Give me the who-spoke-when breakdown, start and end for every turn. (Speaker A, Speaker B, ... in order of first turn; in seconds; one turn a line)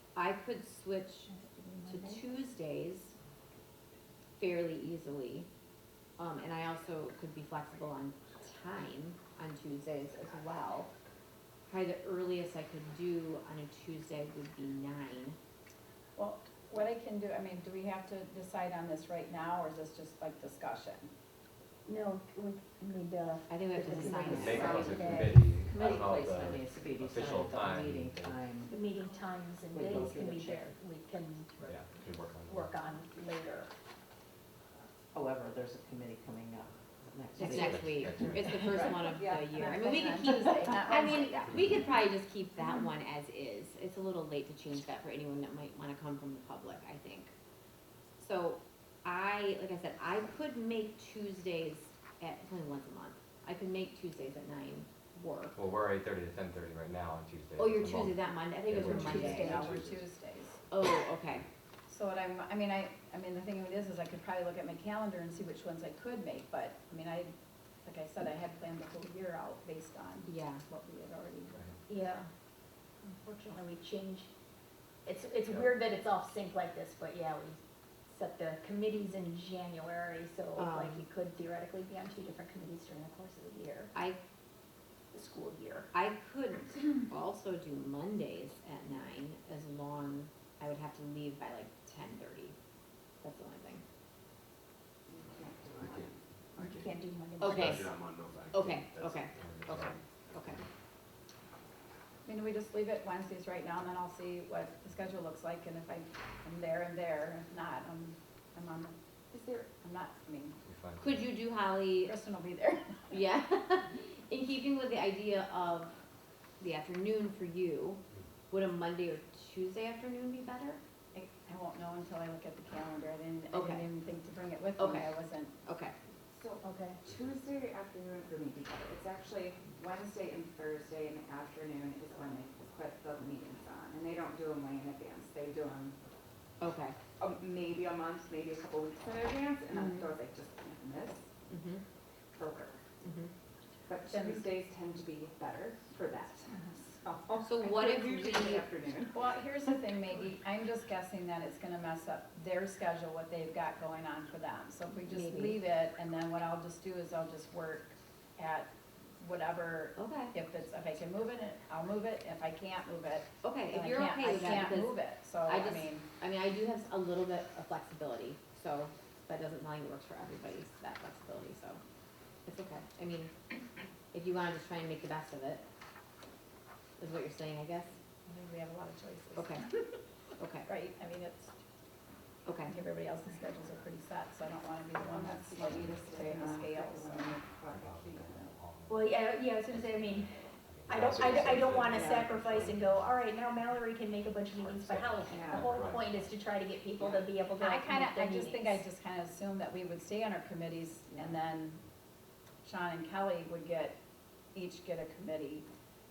Speaker A: 0.1-1.3
Speaker B: 1.3-2.2
Speaker A: 1.9-3.1
Speaker A: 4.4-5.5
Speaker A: 6.2-10.9
Speaker A: 11.7-15.4
Speaker C: 16.1-21.1
Speaker B: 21.9-25.4
Speaker A: 23.5-25.3
Speaker D: 24.1-28.4
Speaker E: 24.2-28.7
Speaker B: 28.7-31.6
Speaker E: 29.7-30.7
Speaker D: 31.6-32.7
Speaker B: 32.5-33.7
Speaker E: 35.1-38.9
Speaker A: 37.4-47.3
Speaker D: 37.4-38.6
Speaker F: 38.7-40.0
Speaker C: 39.5-41.9
Speaker A: 48.2-55.6
Speaker D: 55.5-60.0
Speaker A: 57.6-59.7
Speaker B: 58.8-59.1
Speaker C: 59.0-60.6
Speaker A: 60.7-61.4
Speaker C: 61.9-67.3
Speaker C: 67.8-71.8
Speaker A: 70.3-70.6
Speaker B: 71.9-72.3
Speaker B: 73.0-74.3
Speaker B: 75.0-83.9
Speaker A: 80.5-81.0
Speaker A: 83.9-84.2
Speaker B: 85.1-85.9
Speaker A: 85.9-92.5
Speaker A: 93.2-93.8
Speaker F: 95.1-96.8
Speaker G: 95.7-96.1
Speaker B: 96.6-97.9
Speaker A: 97.4-98.0
Speaker G: 97.5-100.0
Speaker A: 98.5-100.6
Speaker D: 99.4-99.8
Speaker C: 102.2-110.6
Speaker F: 109.3-109.6
Speaker D: 110.7-111.2
Speaker A: 111.0-112.1
Speaker C: 112.0-113.2
Speaker A: 113.1-116.0
Speaker A: 116.6-120.8
Speaker C: 121.1-125.5
Speaker A: 123.5-123.8
Speaker A: 124.8-125.1
Speaker A: 125.6-125.9
Speaker F: 126.3-135.9
Speaker B: 126.6-127.0
Speaker A: 136.6-136.9
Speaker F: 137.2-141.3
Speaker A: 139.7-140.0
Speaker A: 141.5-141.8
Speaker F: 142.3-142.8
Speaker A: 143.0-143.3
Speaker F: 143.9-149.4
Speaker C: 144.0-144.5
Speaker A: 147.4-148.7
Speaker C: 149.1-166.1
Speaker A: 155.1-155.5
Speaker A: 160.0-160.3
Speaker A: 163.4-171.8
Speaker A: 172.4-173.3
Speaker A: 174.1-175.6
Speaker A: 177.0-177.9
Speaker C: 178.2-179.7
Speaker A: 179.3-179.7
Speaker A: 180.4-180.7
Speaker C: 180.7-181.5
Speaker A: 182.4-182.8
Speaker C: 182.7-188.5
Speaker F: 185.0-188.5
Speaker D: 185.7-186.1
Speaker B: 186.3-186.9
Speaker D: 187.7-193.2
Speaker B: 188.9-190.3
Speaker B: 190.9-198.8
Speaker F: 191.2-192.5
Speaker D: 194.6-196.3
Speaker F: 195.2-195.9
Speaker F: 197.0-197.3
Speaker C: 197.6-201.8
Speaker C: 202.6-203.9
Speaker C: 204.5-205.7